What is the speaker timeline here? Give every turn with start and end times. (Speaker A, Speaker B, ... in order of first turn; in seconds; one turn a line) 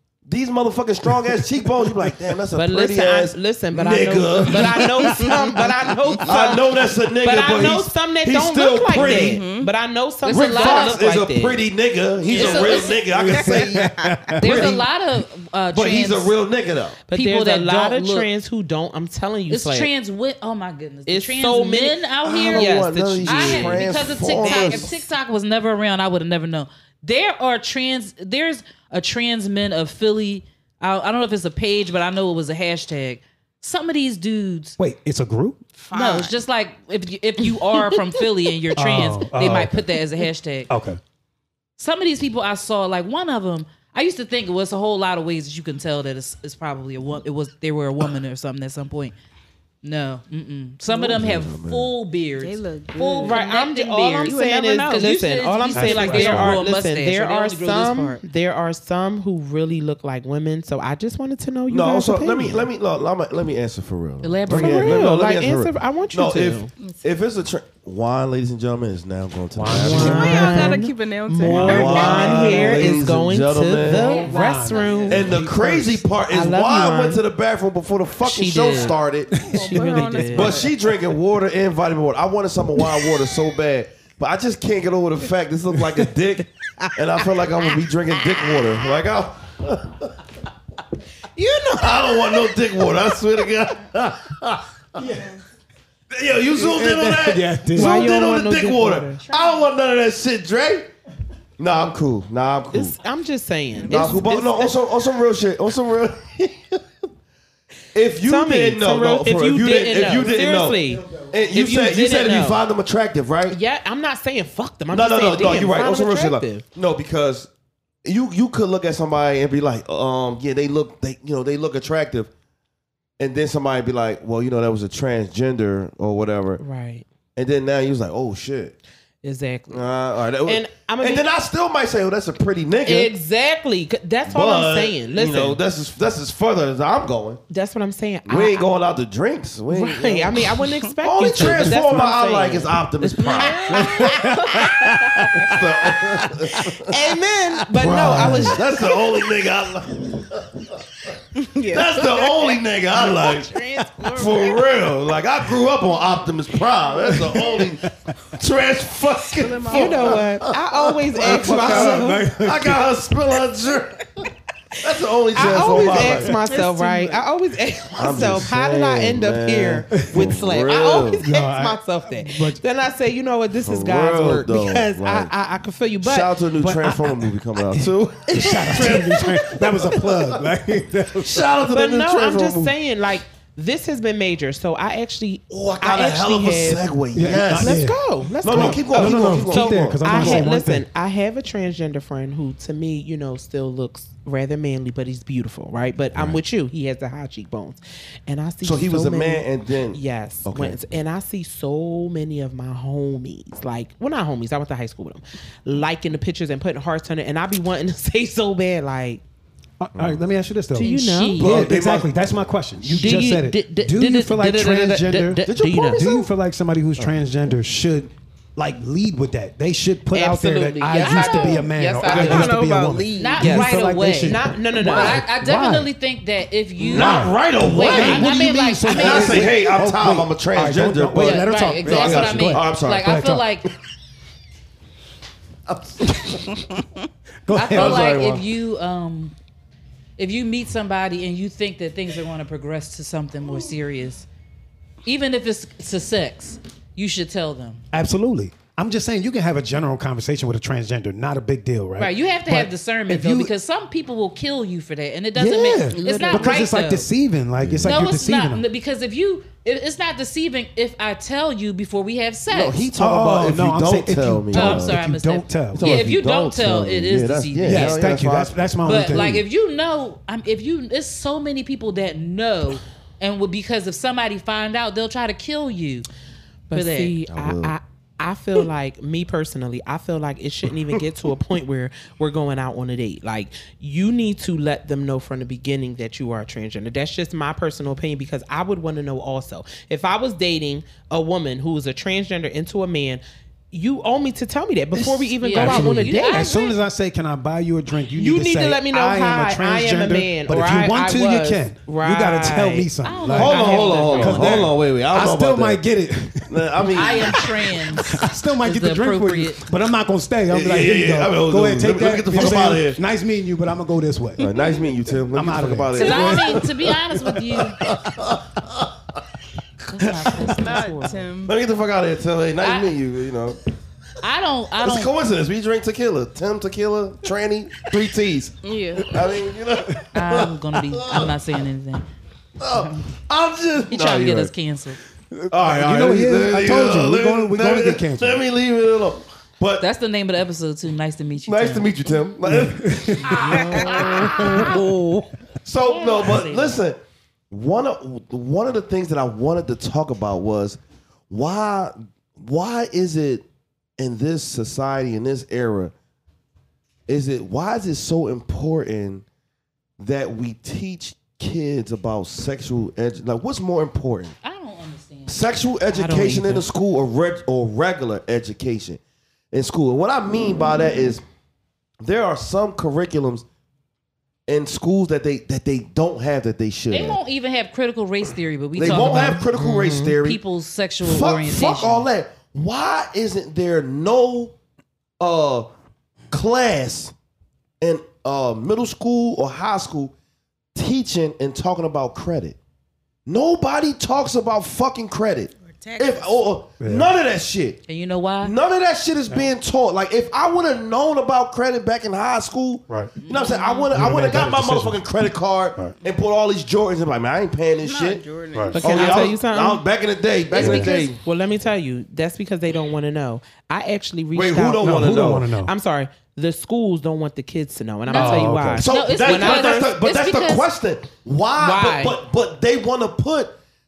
Speaker A: 0.2-5.2
Speaker B: 2.5-11.6
Speaker C: 5.0-6.2
Speaker A: 6.2-9.4
Speaker C: 8.9-9.7
Speaker D: 10.2-11.0
Speaker A: 10.3-14.9
Speaker D: 12.3-13.0
Speaker C: 12.3-12.7
Speaker B: 12.3-12.9
Speaker E: 13.1-14.7
Speaker C: 13.3-14.2
Speaker D: 14.4-16.3
Speaker A: 15.7-17.0
Speaker B: 17.1-19.9
Speaker D: 17.1-18.3
Speaker D: 19.5-34.8
Speaker B: 21.1-24.9
Speaker A: 22.2-24.9
Speaker E: 34.8-35.6
Speaker C: 35.8-36.4
Speaker D: 35.9-40.7
Speaker E: 38.8-39.9
Speaker E: 40.7-41.0
Speaker D: 41.8-49.1
Speaker D: 49.8-58.2
Speaker A: 51.0-51.9
Speaker C: 52.4-53.5
Speaker B: 53.2-62.7
Speaker C: 54.2-55.1
Speaker E: 55.7-56.6
Speaker A: 61.7-70.7
Speaker D: 64.2-65.0
Speaker B: 64.5-66.7
Speaker E: 69.5-70.8
Speaker B: 69.7-75.3
Speaker C: 69.9-73.0
Speaker E: 71.4-72.6
Speaker A: 71.5-74.2
Speaker E: 74.0-76.0
Speaker D: 74.0-75.1
Speaker C: 74.0-75.3
Speaker A: 75.1-79.4
Speaker B: 76.3-77.2
Speaker B: 78.2-79.0
Speaker E: 79.3-80.3
Speaker C: 79.4-80.7
Speaker B: 79.5-80.6
Speaker A: 80.3-90.2
Speaker B: 86.8-87.3
Speaker B: 88.1-88.7
Speaker B: 91.3-92.5
Speaker A: 91.7-95.1
Speaker C: 95.0-95.4
Speaker A: 96.1-100.9
Speaker E: 96.5-98.1
Speaker B: 97.7-99.2
Speaker C: 99.3-99.7
Speaker A: 101.6-103.0
Speaker B: 102.7-104.5
Speaker C: 103.8-104.8
Speaker A: 103.9-106.8
Speaker A: 107.9-113.6
Speaker B: 108.2-112.6
Speaker B: 113.5-116.7
Speaker A: 114.9-117.5
Speaker A: 118.0-122.3
Speaker A: 123.2-126.6
Speaker B: 126.6-127.0
Speaker A: 127.3-128.7
Speaker B: 129.2-129.8
Speaker A: 129.7-133.1
Speaker B: 130.4-131.2
Speaker B: 132.8-135.6
Speaker A: 134.3-137.4
Speaker B: 137.5-138.6
Speaker A: 138.2-143.8
Speaker B: 139.7-144.7
Speaker E: 141.4-141.8
Speaker C: 143.2-145.5
Speaker E: 143.7-145.5
Speaker A: 145.3-147.0
Speaker B: 146.8-148.8
Speaker A: 147.7-150.8
Speaker E: 147.8-148.6
Speaker C: 151.3-154.8
Speaker A: 151.7-160.5
Speaker E: 157.1-158.1
Speaker C: 159.4-160.2
Speaker B: 159.7-162.2
Speaker A: 161.2-164.3
Speaker E: 161.2-162.8
Speaker A: 164.8-166.3
Speaker B: 165.3-177.2
Speaker C: 166.4-167.2
Speaker A: 167.9-171.2
Speaker E: 169.9-170.3
Speaker E: 171.2-172.6
Speaker A: 173.6-175.3
Speaker A: 176.0-180.5
Speaker E: 177.7-181.5
Speaker B: 178.6-179.2
Speaker A: 181.0-182.7
Speaker B: 181.7-209.2
Speaker A: 185.5-190.5
Speaker E: 187.1-190.8
Speaker A: 198.6-200.8
Speaker E: 209.8-225.9
Speaker A: 209.9-210.2
Speaker B: 210.7-211.4
Speaker D: 210.8-211.7
Speaker A: 211.4-213.3
Speaker B: 212.9-216.1
Speaker A: 215.4-216.2
Speaker B: 220.1-222.6
Speaker D: 221.0-221.6
Speaker C: 221.0-223.4
Speaker A: 222.1-222.4
Speaker D: 223.2-229.5
Speaker B: 223.4-225.2
Speaker A: 226.8-233.1
Speaker E: 226.9-233.4
Speaker D: 231.1-233.7
Speaker A: 235.7-236.6
Speaker E: 237.5-238.4
Speaker D: 237.5-239.3
Speaker A: 237.7-238.4
Speaker D: 240.2-244.2
Speaker D: 245.0-247.8
Speaker E: 247.9-253.5
Speaker D: 252.0-257.1
Speaker E: 255.3-258.6
Speaker C: 255.9-256.5
Speaker A: 257.6-258.0
Speaker D: 257.8-262.9
Speaker A: 262.5-265.0
Speaker E: 262.9-266.1
Speaker D: 264.5-268.0
Speaker A: 265.7-268.7
Speaker E: 267.6-269.4
Speaker D: 268.8-276.1
Speaker B: 276.7-296.5
Speaker D: 276.7-277.1
Speaker A: 277.3-277.8
Speaker E: 294.9-307.3
Speaker D: 295.4-296.8
Speaker B: 298.1-302.9
Speaker D: 303.0-304.6
Speaker A: 303.3-305.8
Speaker B: 303.4-304.6
Speaker A: 306.4-307.5
Speaker D: 306.9-309.6
Speaker E: 308.0-314.5
Speaker A: 310.5-313.0
Speaker A: 314.4-319.2
Speaker C: 314.4-314.9
Speaker E: 315.3-316.7
Speaker D: 315.9-317.8
Speaker D: 319.9-321.3
Speaker A: 320.0-320.6
Speaker C: 320.5-321.6
Speaker A: 321.4-323.6
Speaker D: 322.6-322.9
Speaker D: 324.2-325.1
Speaker A: 324.8-331.3
Speaker C: 328.6-329.2
Speaker D: 330.1-332.1
Speaker A: 332.6-334.5
Speaker D: 332.7-333.1
Speaker D: 333.9-335.0
Speaker E: 335.3-338.4
Speaker A: 335.5-339.9
Speaker D: 339.8-341.9
Speaker A: 341.4-344.7
Speaker E: 342.4-344.8
Speaker D: 343.2-344.7
Speaker C: 343.6-344.1
Speaker B: 344.2-345.1
Speaker A: 345.6-347.0
Speaker D: 345.8-346.8
Speaker A: 347.5-353.4
Speaker A: 354.0-355.9
Speaker A: 357.1-359.2
Speaker A: 360.0-364.4
Speaker D: 364.4-365.5
Speaker A: 365.3-369.0
Speaker B: 365.9-366.6
Speaker A: 369.5-371.2
Speaker A: 372.0-373.4
Speaker A: 374.5-377.2
Speaker D: 376.9-379.5
Speaker A: 378.8-380.4
Speaker B: 379.6-380.1
Speaker D: 380.2-382.1
Speaker A: 381.0-384.5
Speaker A: 385.2-385.7
Speaker A: 386.3-387.1
Speaker A: 387.8-390.1
Speaker A: 390.7-392.6
Speaker A: 393.2-397.8
Speaker C: 395.6-396.3
Speaker E: 396.8-397.1
Speaker D: 397.9-398.5
Speaker A: 398.4-408.2
Speaker D: 403.2-403.9
Speaker E: 403.9-405.0
Speaker C: 407.8-409.4
Speaker E: 408.5-408.8
Speaker B: 408.8-409.8
Speaker A: 408.8-411.2
Speaker C: 410.5-411.1
Speaker E: 410.6-410.9
Speaker D: 410.6-410.9
Speaker B: 411.1-419.9
Speaker A: 414.3-415.5
Speaker E: 414.8-415.7
Speaker D: 418.1-420.7
Speaker E: 418.1-418.9
Speaker A: 418.8-423.6
Speaker B: 421.6-422.1